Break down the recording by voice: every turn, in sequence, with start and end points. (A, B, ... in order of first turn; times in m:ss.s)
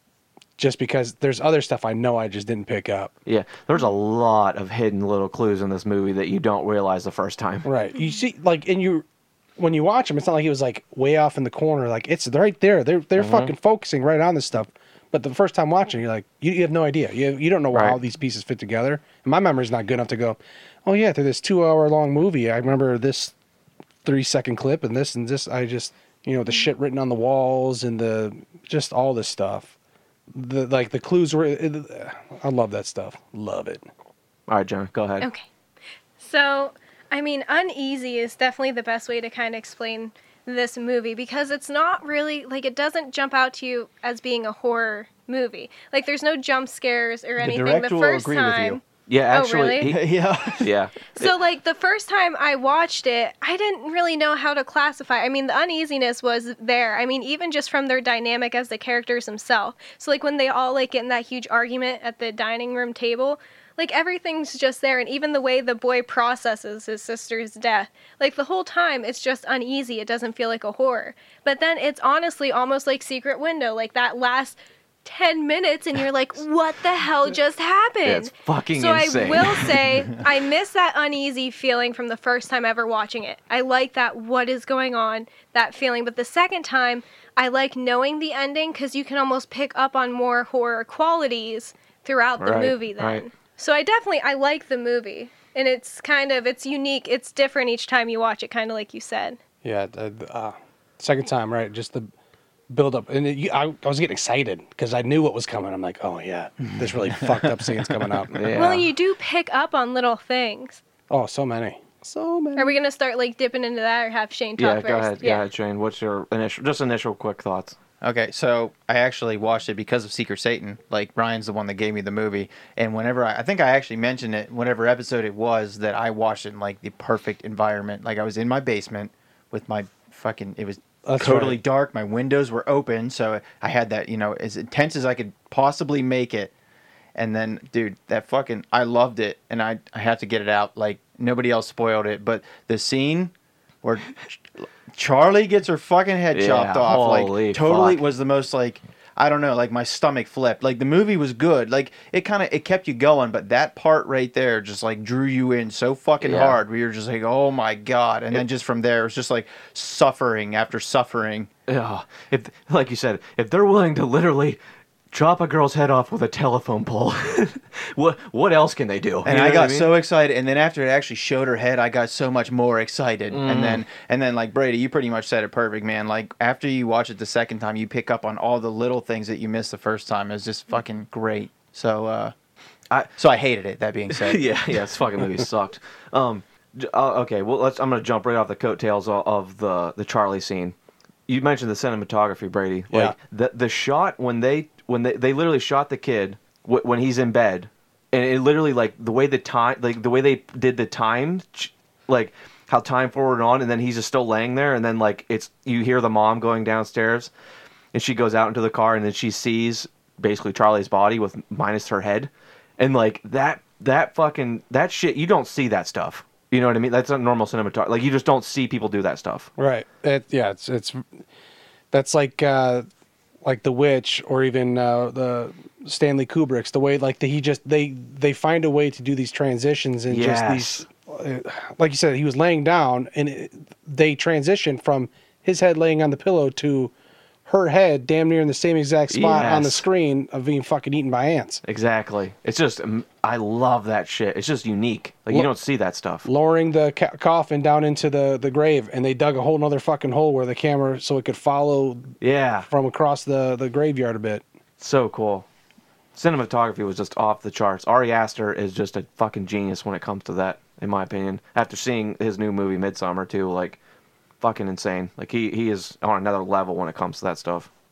0:00.6-0:03.1 A
0:03.2-0:07.7 B
0:07.6-0:09.0 A
0:09.6-0:23.3 A
0:13.2-0:13.5 B
0:17.7-0:18.0 B
0:24.0-0:29.7 A
0:30.3-0:33.9 A
0:34.5-0:35.3 B
0:35.2-0:35.4 C
0:36.2-0:49.9 C
0:47.4-0:48.8 D
0:49.1-0:50.0 B
0:49.9-0:50.7 D
0:50.6-0:51.3 B
0:51.1-1:39.4 C
1:18.0-1:19.8 B
1:32.4-1:33.2 B
1:39.6-1:42.1 A
1:42.7-1:48.5 A
1:47.1-1:47.9 D
1:48.3-1:48.9 B
1:48.5-1:50.8 C
1:51.1-1:52.8 A
1:52.6-1:55.4 C
1:54.6-1:57.8 B
1:58.0-2:16.5 D
2:11.0-2:11.6 A
2:17.1-2:41.5 D
2:26.3-2:28.0 B
2:36.2-2:36.6 B
2:41.7-2:44.6 B
2:45.1-2:49.9 B
2:49.2-3:02.3 D
2:53.3-2:53.8 B
3:03.2-3:04.5 D
3:04.1-3:10.7 B
3:11.3-3:27.3 B
3:12.9-3:13.2 A
3:27.9-3:39.5 B
3:39.6-3:41.2 A
3:41.9-3:42.9 A
3:43.4-3:56.9 A
3:50.1-3:50.8 B
3:57.4-4:01.6 A
3:59.1-3:59.8 B
4:01.6-4:06.2 B
4:06.2-4:12.1 A
4:12.2-4:12.7 B
4:12.7-4:14.4 A
4:14.8-4:15.4 B
4:16.1-4:23.8 B
4:24.4-4:27.7 B